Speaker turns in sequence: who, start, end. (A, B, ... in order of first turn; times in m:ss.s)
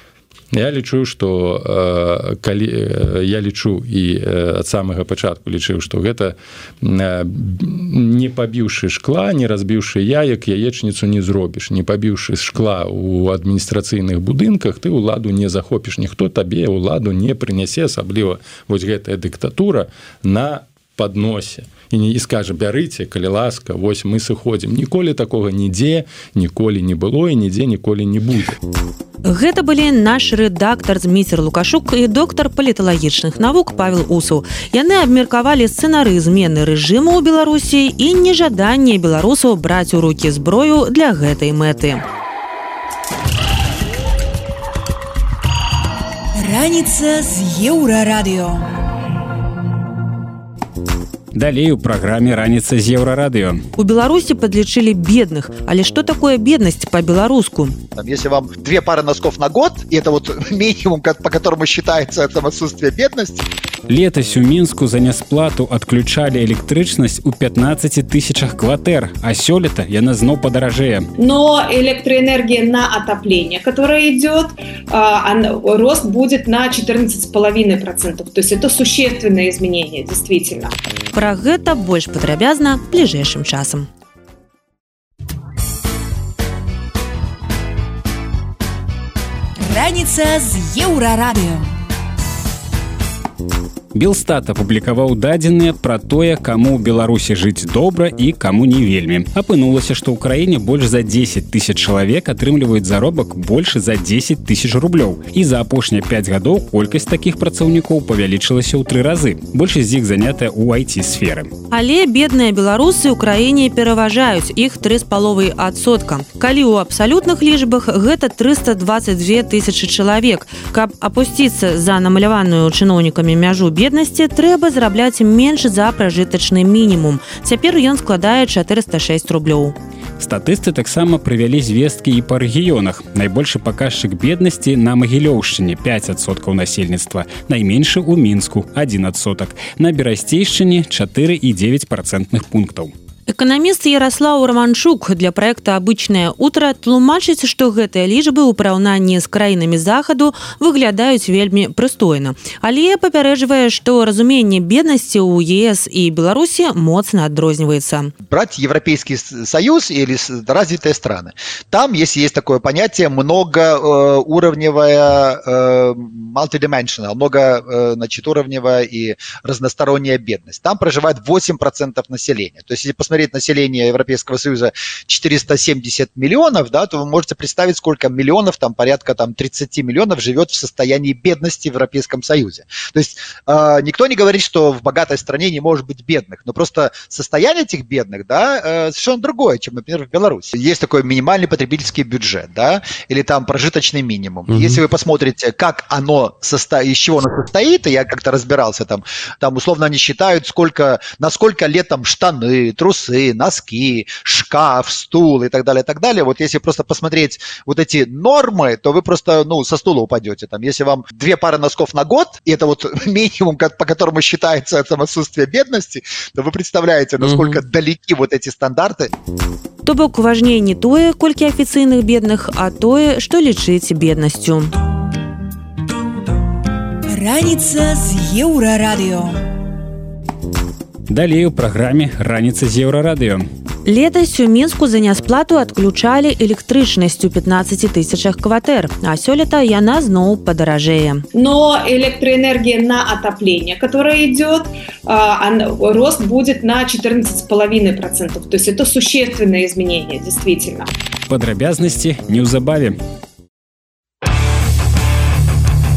0:00.5-0:28.6 A
0:29.2-0:42.0 B
0:46.3-0:48.8 C
0:51.3-0:53.6 D
0:53.8-0:57.8 B
0:58.0-1:03.4 E
1:03.9-1:11.1 D
1:11.2-1:20.7 F
1:21.1-1:23.9 B
1:29.6-1:31.8 C
1:33.9-1:51.5 D
1:51.7-2:09.7 B
2:10.2-2:22.9 D
2:23.3-2:38.1 B
2:38.3-3:39.1 E
3:39.8-3:44.7 B
3:47.1-3:49.4 C
3:51.1-3:53.4 D
3:53.8-4:01.2 B
4:01.3-4:10.9 F
4:11.3-4:13.0 D